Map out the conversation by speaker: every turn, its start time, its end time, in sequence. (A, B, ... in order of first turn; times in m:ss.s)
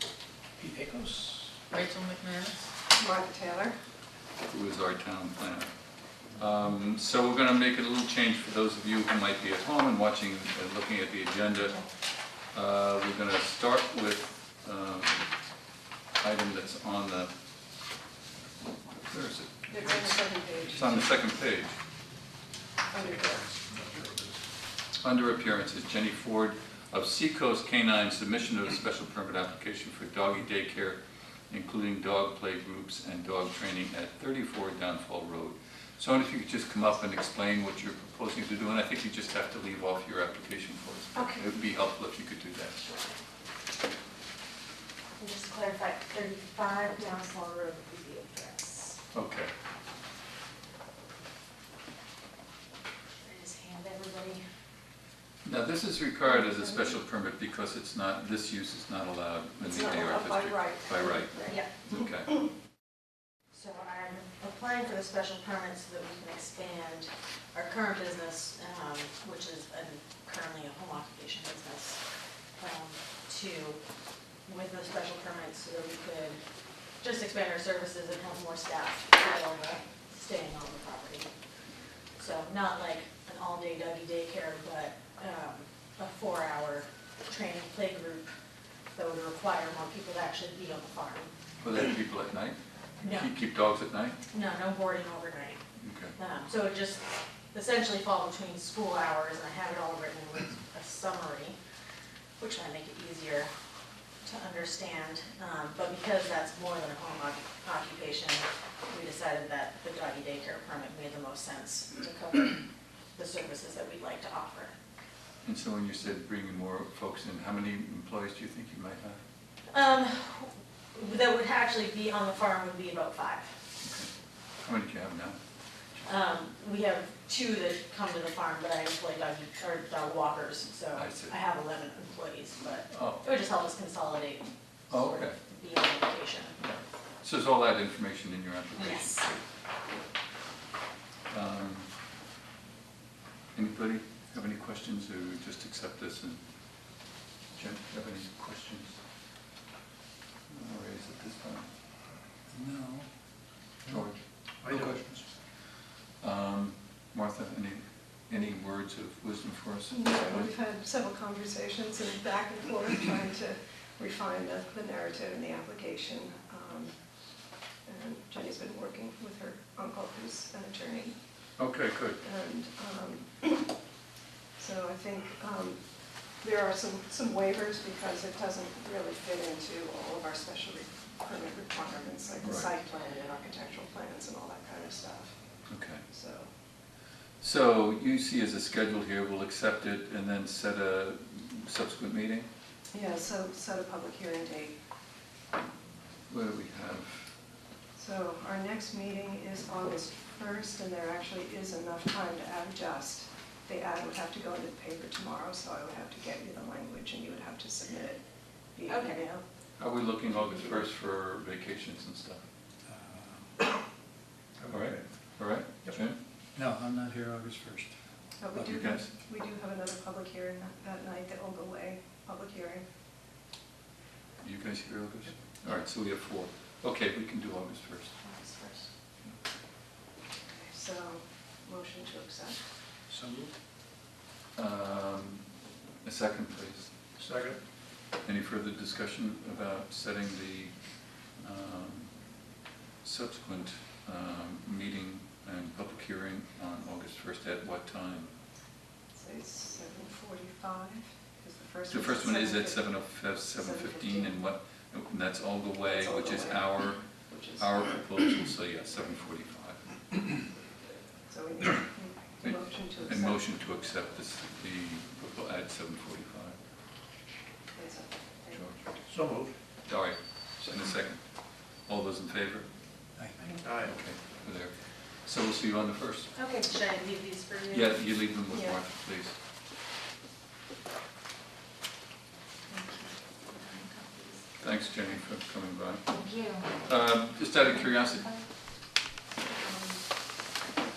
0:00.6-0:01.7 A
0:01.7-0:02.6 B
0:03.0-0:03.8 C
0:04.5-0:05.7 D
0:06.4-0:11.8 D
0:12.5-0:15.2 D
0:16.2-0:17.3 D
0:19.0-0:19.7 D
0:19.7-0:21.1 C
0:20.7-0:21.8 D
0:22.9-0:23.4 C
0:22.9-0:24.4 A
0:25.0-0:31.0 D
0:31.5-0:42.8 D
0:41.2-0:41.4 B
0:42.8-0:43.2 B
0:45.2-0:49.0 B
0:49.1-0:49.5 D
0:53.2-0:54.4 B
0:55.4-1:02.3 D
0:59.6-1:01.6 C
1:01.5-1:01.8 B
1:03.5-1:12.0 B
1:12.6-1:13.8 B
1:14.5-1:16.4 B
1:17.0-1:21.3 B
1:22.2-1:28.3 B
1:28.9-1:31.3 B
1:31.6-1:34.2 D
1:33.0-1:33.3 B
1:34.3-1:35.6 B
1:35.8-1:36.2 D
1:36.2-1:41.6 B
1:42.4-1:43.5 B
1:44.2-1:54.8 B
1:55.4-1:59.2 D
1:59.7-2:03.5 B
2:03.8-2:04.1 D
2:04.6-2:05.4 D
2:06.0-2:16.6 B
2:11.0-2:11.3 D
2:12.9-2:13.2 D
2:14.9-2:15.4 D
2:16.6-2:19.4 D
2:18.8-2:19.2 B
2:21.3-2:21.9 D
2:23.5-2:26.4 D
2:27.5-2:29.0 D
2:30.5-2:31.7 D
2:32.5-2:33.1 A
2:33.8-2:35.3 A
2:33.9-2:35.0 D
2:36.2-2:40.5 D
2:39.9-2:47.0 C
2:47.9-2:51.2 C
2:51.6-2:52.2 D
2:52.2-2:53.7 C
2:54.6-3:05.4 C
3:02.4-3:02.7 D
3:05.7-3:06.0 D
3:06.1-3:06.5 C
3:07.4-3:12.5 D
3:12.9-3:14.8 C
3:16.3-3:17.2 D
3:18.0-3:28.2 C
3:28.7-3:29.4 C
3:28.9-3:29.3 B
3:29.8-3:32.4 D
3:32.9-3:33.6 A
3:34.6-3:36.0 A
3:34.7-3:36.2 D
3:36.6-3:37.9 A
3:38.4-3:42.9 C
3:38.6-3:39.1 D
3:44.4-3:48.1 D
3:48.2-3:48.9 B
3:50.5-3:52.6 C
3:53.1-3:53.5 A
3:54.6-3:55.4 D
3:56.0-3:56.9 D
3:57.2-3:57.6 A
3:58.2-4:00.7 D
4:01.4-4:02.1 D
4:03.0-4:08.3 D
4:09.1-4:12.9 C
4:11.9-4:19.9 D
4:13.5-4:14.4 C
4:15.9-4:17.8 C
4:21.3-4:23.4 C
4:22.4-4:26.6 D
4:27.7-4:28.6 C
4:28.5-4:28.8 D
4:29.1-4:29.6 A
4:29.8-4:32.7 D
4:33.2-4:33.9 A
4:33.8-4:36.3 D
4:36.3-4:38.0 B
4:37.7-4:39.4 D
4:38.5-4:38.8 C
4:42.7-4:44.5 B
4:44.6-4:48.3 D
4:46.1-4:46.7 B
4:49.4-4:50.0 C